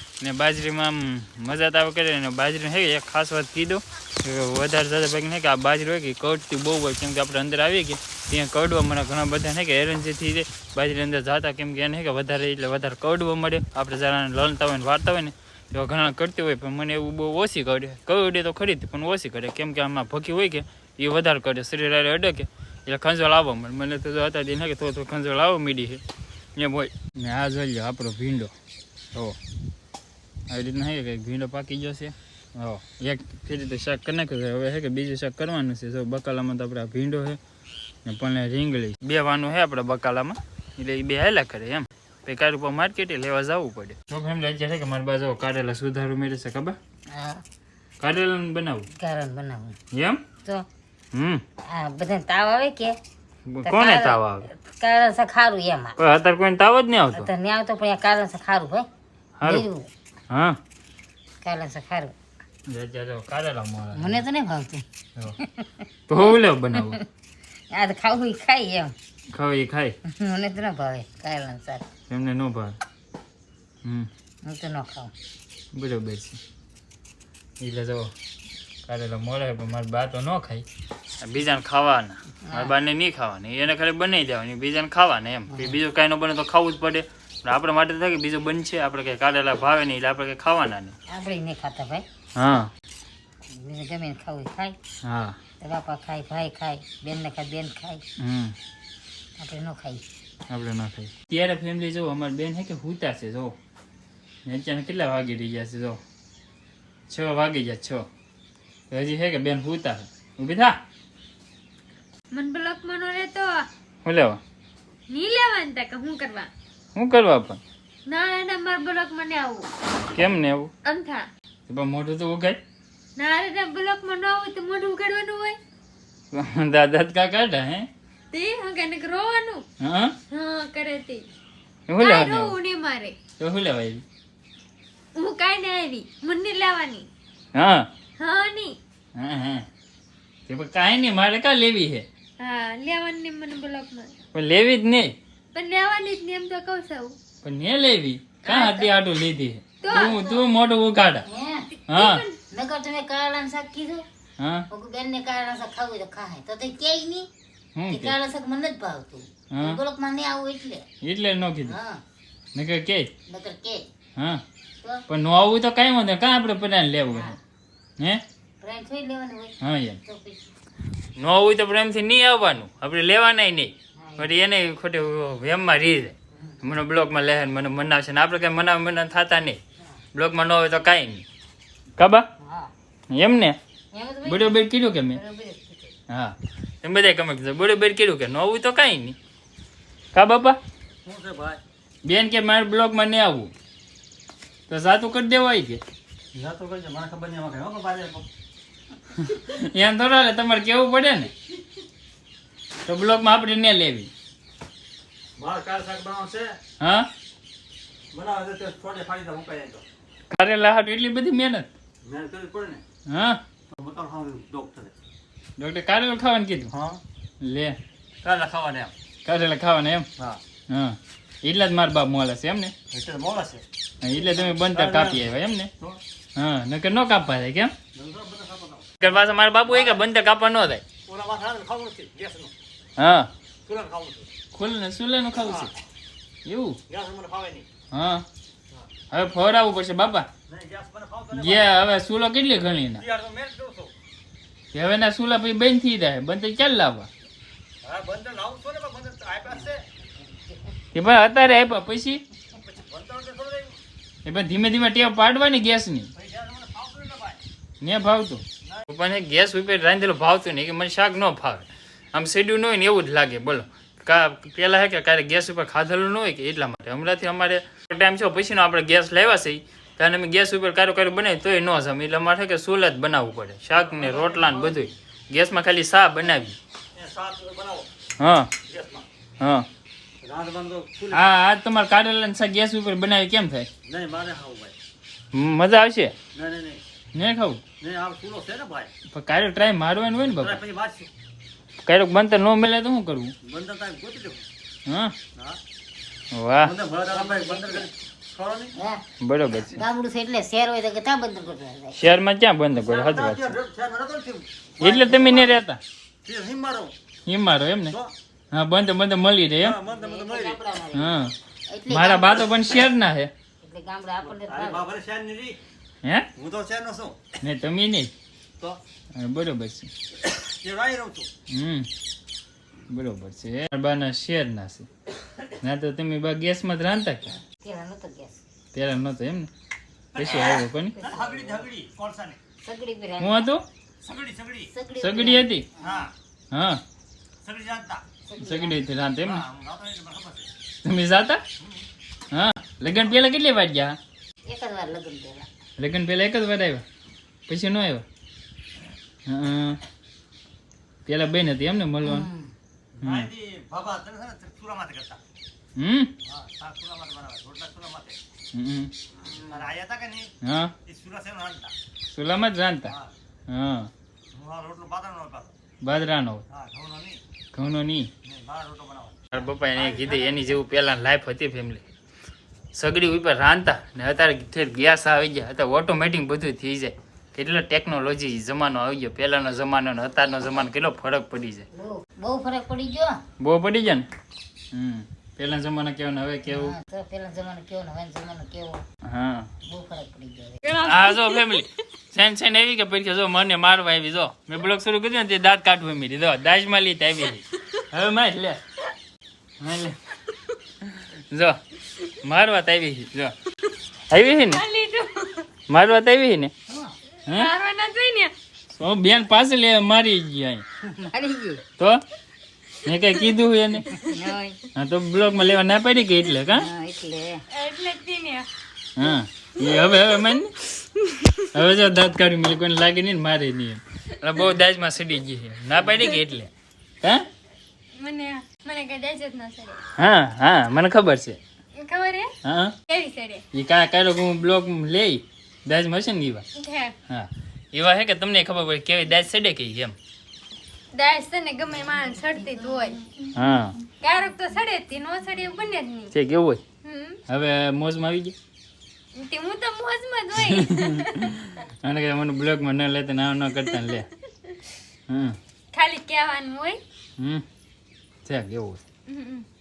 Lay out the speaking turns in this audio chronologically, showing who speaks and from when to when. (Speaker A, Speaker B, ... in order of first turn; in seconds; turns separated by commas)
Speaker A: 0.2-26.0, Speaker A: 26.6-28.5, Speaker A: 30.5-37.4, Speaker A: 38.0-46.8, Speaker B: 47.1-47.4, Speaker A: 48.0-48.9, Speaker B: 49.0-49.8, Speaker A: 49.9-50.2, Speaker A: 51.1-51.4, Speaker B: 51.7-53.0, Speaker A: 53.5-54.5, Speaker B: 53.6-56.0, Speaker A: 56.0-57.3, Speaker B: 57.1-58.9, Speaker A: 59.4-59.7, Speaker B: 59.4-59.9, Speaker A: 60.3-60.6, Speaker B: 61.4-62.1, Speaker A: 62.7-64.2, Speaker B: 63.9-64.8, Speaker B: 65.4-65.9, Speaker A: 66.1-67.0, Speaker B: 67.7-68.9, Speaker A: 69.3-70.0, Speaker B: 70.1-71.9, Speaker A: 72.1-72.8, Speaker A: 73.8-74.1, Speaker B: 74.5-75.1, Speaker A: 75.7-76.4, Speaker A: 77.6-78.1, Speaker A: 78.9-80.7, Speaker A: 81.2-90.9, Speaker B: 82.5-82.7, Speaker B: 85.5-85.8, Speaker B: 91.1-92.0, Speaker A: 92.3-92.7, Speaker B: 93.5-94.8, Speaker A: 95.0-95.4, Speaker B: 95.6-98.0, Speaker A: 98.2-98.5, Speaker B: 99.4-100.0, Speaker A: 100.5-103.6, Speaker A: 104.5-106.0, Speaker A: 107.1-108.1, Speaker A: 108.9-110.8, Speaker C: 112.3-113.6, Speaker A: 114.0-114.4, Speaker C: 115.1-116.5, Speaker A: 116.9-117.6, Speaker C: 118.1-119.7, Speaker A: 120.1-120.7, Speaker C: 120.8-121.2, Speaker A: 121.7-122.6, Speaker C: 123.2-125.6, Speaker A: 126.3-127.9, Speaker C: 128.3-129.6, Speaker A: 129.8-130.1, Speaker C: 130.3-131.2, Speaker A: 131.9-132.5, Speaker C: 132.0-133.2, Speaker A: 133.4-134.0, Speaker C: 135.2-137.1, Speaker A: 137.5-137.9, Speaker C: 138.2-138.8, Speaker A: 139.1-139.6, Speaker A: 140.5-142.1, Speaker C: 142.4-144.2, Speaker A: 144.3-145.2, Speaker C: 145.5-147.2, Speaker A: 147.4-151.2, Speaker C: 148.4-148.9, Speaker C: 149.8-150.1, Speaker B: 149.9-150.4, Speaker B: 151.2-151.7, Speaker C: 151.8-152.4, Speaker A: 151.9-152.2, Speaker B: 152.5-154.0, Speaker A: 154.4-154.7, Speaker B: 154.7-157.3, Speaker A: 157.8-158.2, Speaker B: 157.9-160.8, Speaker A: 159.5-159.8, Speaker A: 161.0-161.8, Speaker B: 161.7-162.0, Speaker A: 162.5-163.1, Speaker B: 163.3-163.8, Speaker A: 164.2-164.4, Speaker A: 165.1-167.4, Speaker B: 168.6-169.5, Speaker A: 169.6-170.0, Speaker B: 170.1-170.5, Speaker A: 171.2-179.6, Speaker B: 173.9-174.3, Speaker A: 180.1-181.2, Speaker A: 182.0-182.3, Speaker B: 182.4-182.7, Speaker A: 183.1-183.6, Speaker B: 183.9-185.9, Speaker A: 184.2-185.2, Speaker A: 186.1-189.2, Speaker A: 190.1-190.6, Speaker D: 191.0-191.6, Speaker A: 192.0-193.5, Speaker A: 194.7-195.8, Speaker D: 196.3-198.2, Speaker A: 199.2-201.3, Speaker A: 202.8-204.1, Speaker D: 205.4-206.6, Speaker A: 206.8-207.1, Speaker D: 208.1-209.8, Speaker A: 210.3-211.7, Speaker D: 212.0-212.8, Speaker A: 213.1-213.4, Speaker D: 213.7-214.9, Speaker A: 215.6-216.7, Speaker D: 216.7-217.0, Speaker A: 217.4-217.8, Speaker D: 218.2-218.9, Speaker A: 219.2-220.1, Speaker A: 220.7-222.7, Speaker D: 222.9-223.6, Speaker A: 224.0-225.7, Speaker D: 224.4-225.2, Speaker A: 226.3-227.7, Speaker D: 227.9-230.0, Speaker A: 229.0-230.8, Speaker D: 231.1-232.5, Speaker A: 233.0-233.3, Speaker D: 233.7-234.3, Speaker A: 234.5-235.7, Speaker D: 235.4-235.7, Speaker A: 236.4-236.8, Speaker D: 236.9-237.7, Speaker A: 237.9-238.2, Speaker A: 239.1-240.3, Speaker D: 240.5-241.7, Speaker A: 241.3-243.1, Speaker D: 243.0-243.9, Speaker A: 244.7-247.1, Speaker D: 247.8-249.8, Speaker A: 250.9-252.2, Speaker D: 252.7-253.8, Speaker A: 254.2-256.1, Speaker D: 256.1-257.4, Speaker A: 257.8-276.6, Speaker D: 273.8-274.9, Speaker D: 276.9-277.9, Speaker A: 278.2-278.5, Speaker D: 278.6-279.1, Speaker A: 279.4-279.6, Speaker D: 280.2-281.3, Speaker A: 281.1-283.7, Speaker D: 283.9-284.7, Speaker A: 285.3-286.1, Speaker D: 286.3-286.8, Speaker A: 287.1-287.6, Speaker D: 287.8-288.9, Speaker A: 289.1-290.6, Speaker D: 290.3-291.1, Speaker A: 291.9-293.3, Speaker D: 293.4-294.4, Speaker A: 294.9-295.1, Speaker A: 296.3-296.8, Speaker D: 296.6-298.7, Speaker B: 297.1-297.9, Speaker B: 298.7-299.0, Speaker A: 299.2-299.8, Speaker B: 299.6-302.0, Speaker A: 301.9-303.6, Speaker D: 302.7-305.6, Speaker A: 304.8-305.8, Speaker D: 306.2-306.9, Speaker A: 307.3-308.0, Speaker A: 308.5-309.8, Speaker D: 309.6-310.6, Speaker B: 309.9-312.7, Speaker A: 310.9-311.3, Speaker A: 311.9-313.3, Speaker B: 313.6-314.9, Speaker D: 314.2-315.6, Speaker D: 316.4-317.2, Speaker A: 317.4-318.1, Speaker A: 319.1-319.9, Speaker D: 320.2-321.3, Speaker A: 321.5-321.9, Speaker A: 322.9-324.9, Speaker A: 325.6-327.4, Speaker B: 327.5-328.4, Speaker A: 328.7-329.5, Speaker D: 330.1-332.4, Speaker A: 330.1-330.9, Speaker B: 330.9-331.7, Speaker B: 332.6-333.5, Speaker A: 333.2-333.6, Speaker D: 334.0-334.7, Speaker B: 334.7-336.1, Speaker A: 335.0-335.6, Speaker D: 335.8-336.1, Speaker A: 336.5-336.8, Speaker D: 337.4-338.0, Speaker B: 338.2-338.8, Speaker A: 338.4-339.4, Speaker D: 339.2-340.5, Speaker A: 340.8-341.4, Speaker A: 342.3-343.9, Speaker B: 344.5-345.5, Speaker A: 345.8-346.8, Speaker A: 347.5-348.0, Speaker A: 349.3-349.8, Speaker A: 351.1-352.3, Speaker B: 352.0-352.5, Speaker D: 353.0-355.2, Speaker A: 353.0-353.3, Speaker A: 355.8-356.1, Speaker D: 356.2-358.2, Speaker A: 358.5-358.9, Speaker D: 359.4-360.3, Speaker A: 360.4-360.7, Speaker D: 360.8-361.7, Speaker A: 362.1-362.9, Speaker D: 362.8-363.1, Speaker A: 363.5-363.9, Speaker D: 364.3-365.5, Speaker A: 365.8-366.4, Speaker D: 366.5-367.2, Speaker A: 367.5-368.1, Speaker D: 368.2-370.4, Speaker A: 369.3-371.8, Speaker A: 372.7-381.7, Speaker B: 381.7-383.2, Speaker A: 383.4-384.1, Speaker A: 384.7-386.7, Speaker B: 386.5-388.8, Speaker A: 389.0-389.5, Speaker B: 389.6-390.6, Speaker C: 390.6-391.6, Speaker A: 390.8-398.6, Speaker A: 399.6-400.0, Speaker A: 400.9-403.3, Speaker A: 404.1-404.6, Speaker C: 404.4-405.5, Speaker A: 405.7-406.5, Speaker B: 406.7-406.9, Speaker C: 407.3-408.3, Speaker A: 408.7-410.6, Speaker B: 410.8-411.6, Speaker A: 412.8-413.9, Speaker B: 414.0-414.6, Speaker A: 414.7-416.7, Speaker B: 416.5-417.4, Speaker C: 417.5-418.5, Speaker A: 418.9-420.7, Speaker C: 419.7-420.0, Speaker A: 421.5-427.3, Speaker C: 428.0-429.8, Speaker A: 430.0-431.4, Speaker C: 431.8-432.3, Speaker A: 432.4-432.8, Speaker C: 432.9-433.4, Speaker A: 433.5-436.4, Speaker C: 436.5-436.9, Speaker A: 437.1-439.9, Speaker C: 440.9-443.0, Speaker A: 443.3-443.8, Speaker C: 444.0-446.1, Speaker A: 446.1-446.6, Speaker C: 446.8-447.2, Speaker A: 447.3-448.4, Speaker C: 449.1-451.3, Speaker A: 450.4-454.1, Speaker C: 453.8-454.6, Speaker A: 455.1-455.4, Speaker C: 455.7-456.8, Speaker A: 457.2-457.4, Speaker A: 458.2-458.8, Speaker C: 459.1-459.4